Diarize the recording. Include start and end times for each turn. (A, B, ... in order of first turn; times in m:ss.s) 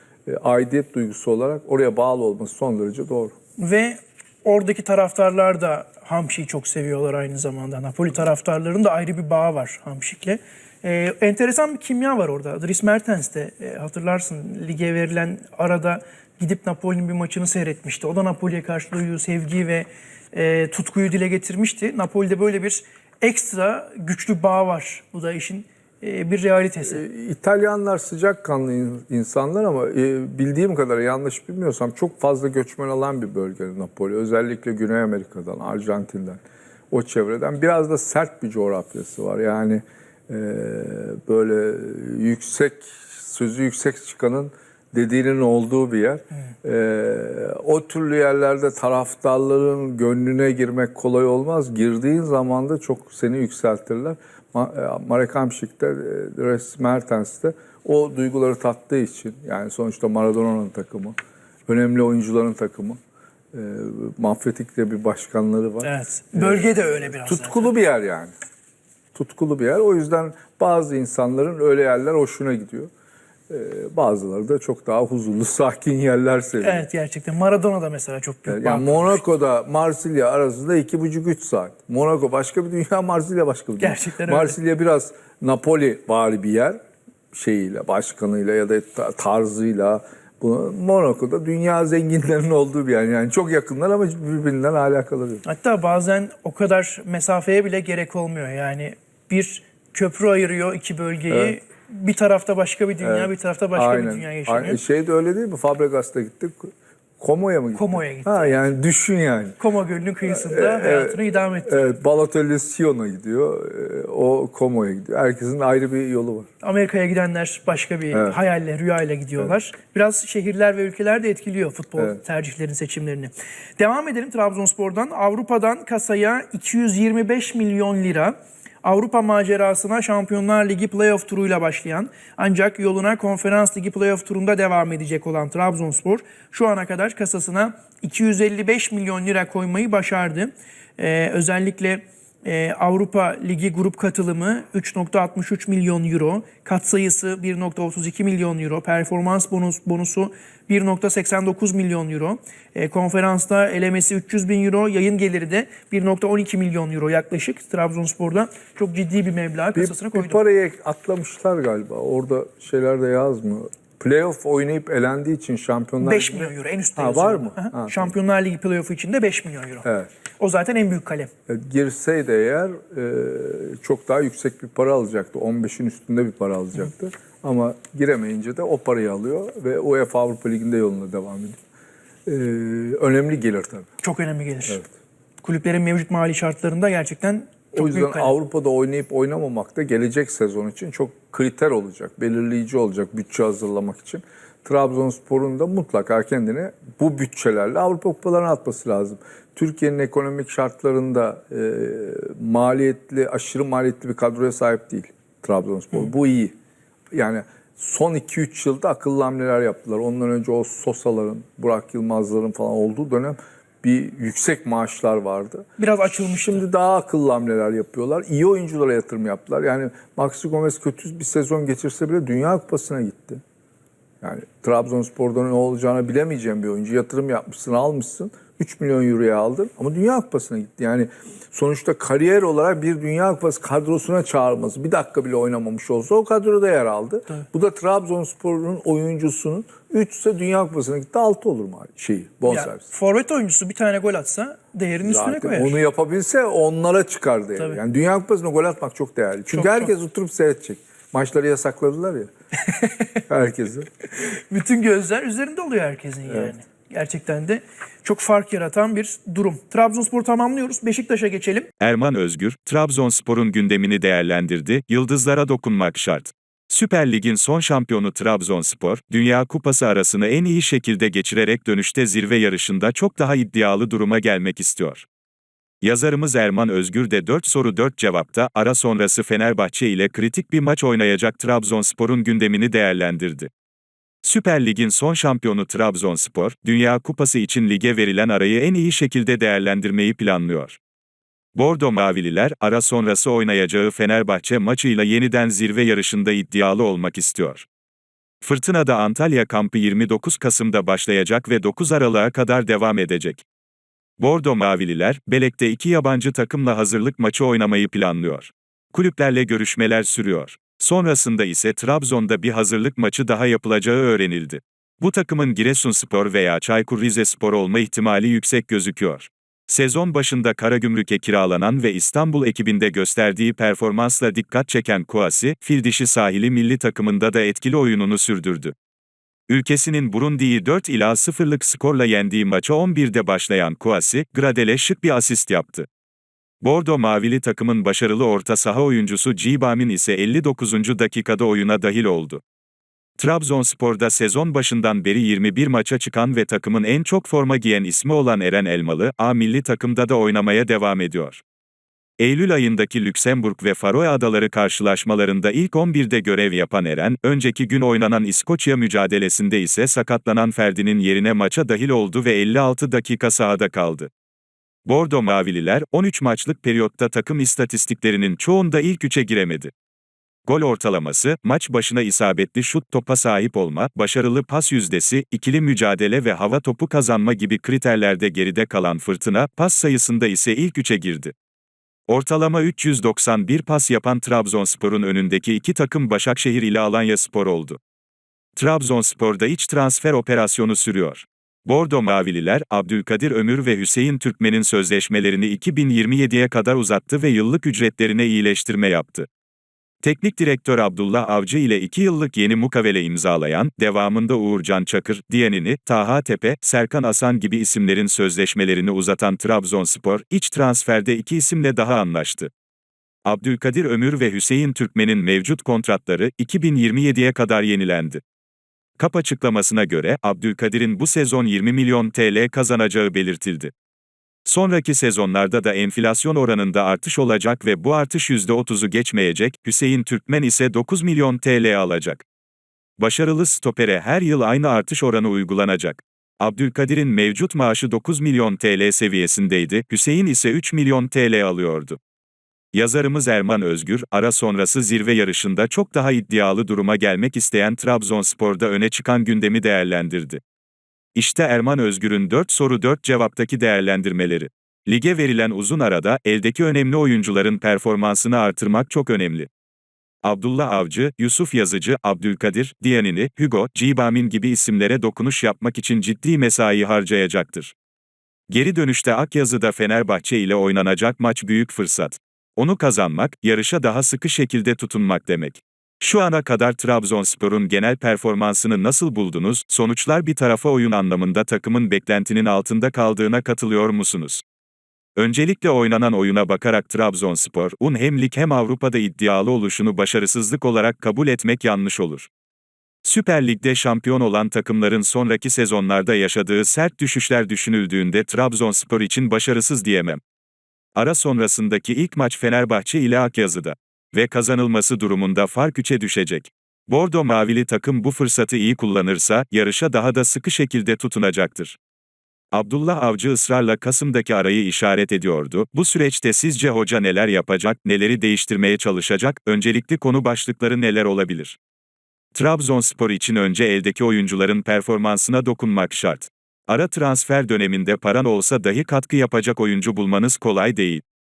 0:00.2-0:03.3 A
0:03.6-0:27.0 B
0:26.8-0:36.4 A
0:36.9-1:01.2 A
1:01.7-1:03.0 A
1:03.5-1:08.3 A
1:05.8-1:07.7 B
1:09.1-1:12.9 A
1:13.5-1:16.8 A
1:16.6-1:19.2 B
1:18.5-1:26.8 A
1:23.8-1:24.6 B
1:27.3-1:35.4 A
1:35.4-1:44.8 B
1:41.3-1:41.6 A
1:43.0-1:49.6 A
1:47.8-1:48.7 B
1:49.6-1:52.0 B
1:50.2-1:56.5 A
1:56.6-2:40.4 B
1:58.1-1:58.4 A
2:39.8-2:48.1 A
2:46.0-2:49.9 B
2:49.8-2:50.1 A
2:50.4-2:51.3 B
2:51.5-3:01.6 A
3:02.2-3:03.9 A
3:04.0-3:04.8 B
3:05.4-3:08.4 B
3:07.7-3:26.5 A
3:27.1-3:35.6 A
3:35.8-3:36.6 B
3:36.3-3:43.4 A
3:44.2-4:02.8 A
4:02.4-4:05.8 B
4:05.0-4:12.3 A
4:09.5-4:09.9 B
4:13.3-4:13.9 A
4:14.3-4:21.7 B
4:16.3-4:16.5 A
4:21.8-4:35.0 C
4:35.8-4:43.5 C
4:44.2-4:50.8 C
4:51.5-4:57.7 C
4:58.4-5:03.4 C
5:04.2-5:28.8 C
5:29.5-5:35.9 C
5:36.6-5:42.4 C
5:43.2-5:51.4 C
5:52.2-6:04.1 C
6:04.9-6:09.7 C
6:10.5-6:21.4 C
6:22.1-6:27.8 C
6:28.6-6:39.3 C
6:40.0-6:52.5 C
6:53.2-6:58.2 C
6:59.0-7:03.7 C
7:04.5-7:12.2 C
7:13.0-7:22.0 C
7:22.7-7:30.4 C
7:31.1-7:39.5 C
7:40.2-7:47.7 C
7:48.5-8:04.4 C
8:05.2-8:12.3 C
8:13.0-8:20.2 C
8:21.0-8:31.8 C
8:32.5-8:41.6 C
8:42.3-8:51.0 C